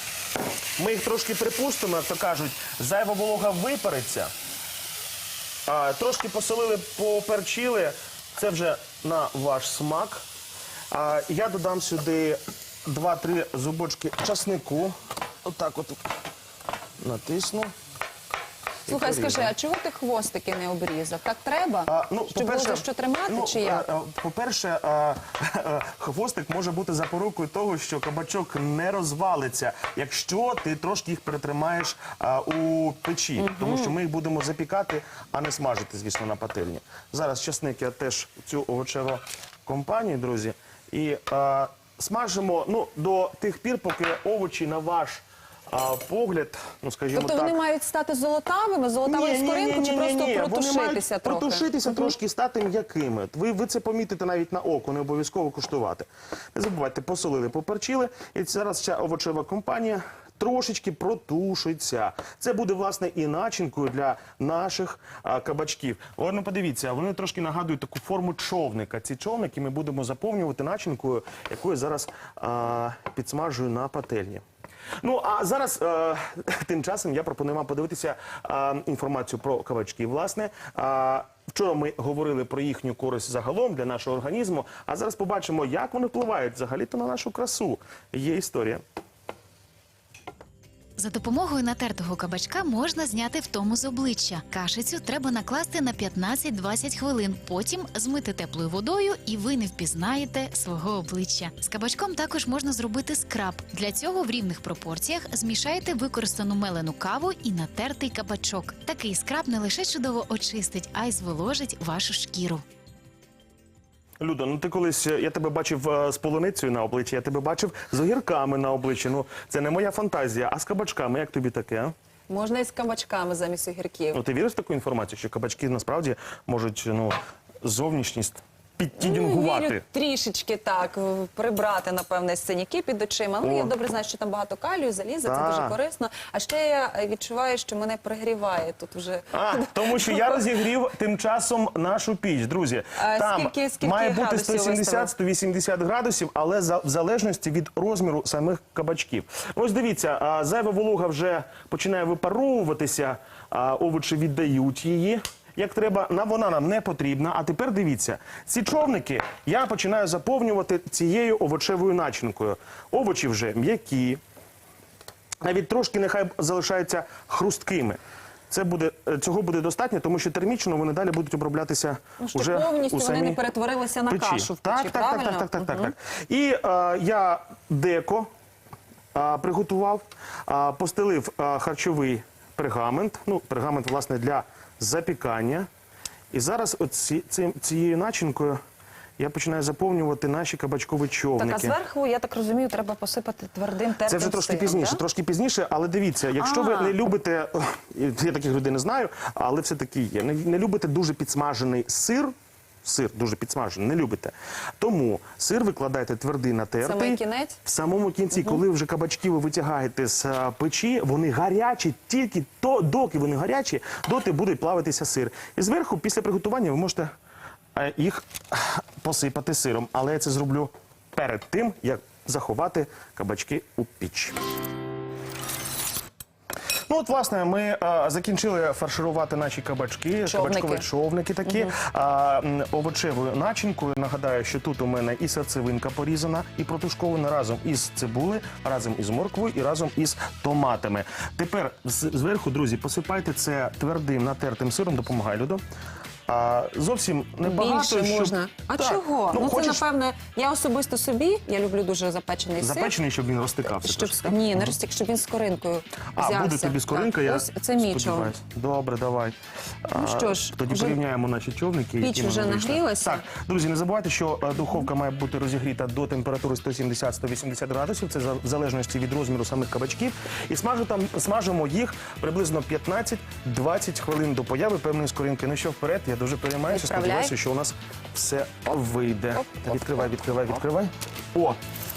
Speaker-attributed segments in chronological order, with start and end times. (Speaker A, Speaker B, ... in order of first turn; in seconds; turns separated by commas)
Speaker A: 0.8-4.3, Speaker A: 5.7-10.2, Speaker A: 10.9-16.0, Speaker A: 17.0-17.7, Speaker A: 18.9-19.5, Speaker B: 18.9-23.9, Speaker A: 21.9-47.6, Speaker B: 33.4-33.9, Speaker B: 47.1-52.1, Speaker A: 49.0-74.4, Speaker A: 75.0-88.8, Speaker C: 91.0-112.6, Speaker A: 114.2-121.9, Speaker B: 122.3-124.2, Speaker A: 124.1-129.8, Speaker B: 129.0-140.5, Speaker A: 133.4-133.7, Speaker A: 135.2-135.8, Speaker A: 139.3-164.2, Speaker B: 143.0-145.1, Speaker A: 165.4-168.0, Speaker A: 168.5-173.4, Speaker B: 172.2-175.9, Speaker A: 174.1-178.3, Speaker A: 179.1-185.7, Speaker A: 186.3-188.6, Speaker A: 189.2-191.8, Speaker B: 191.4-195.0, Speaker A: 194.0-202.3, Speaker B: 196.4-197.0, Speaker A: 202.8-217.1, Speaker B: 206.8-207.6, Speaker A: 217.8-224.4, Speaker A: 226.9-245.6, Speaker B: 230.3-230.9, Speaker B: 231.5-231.7, Speaker A: 246.3-249.9, Speaker B: 247.4-252.9, Speaker A: 252.6-254.7, Speaker B: 253.6-258.4, Speaker A: 256.1-281.6, Speaker B: 259.9-261.0, Speaker B: 262.0-263.3, Speaker B: 276.7-277.3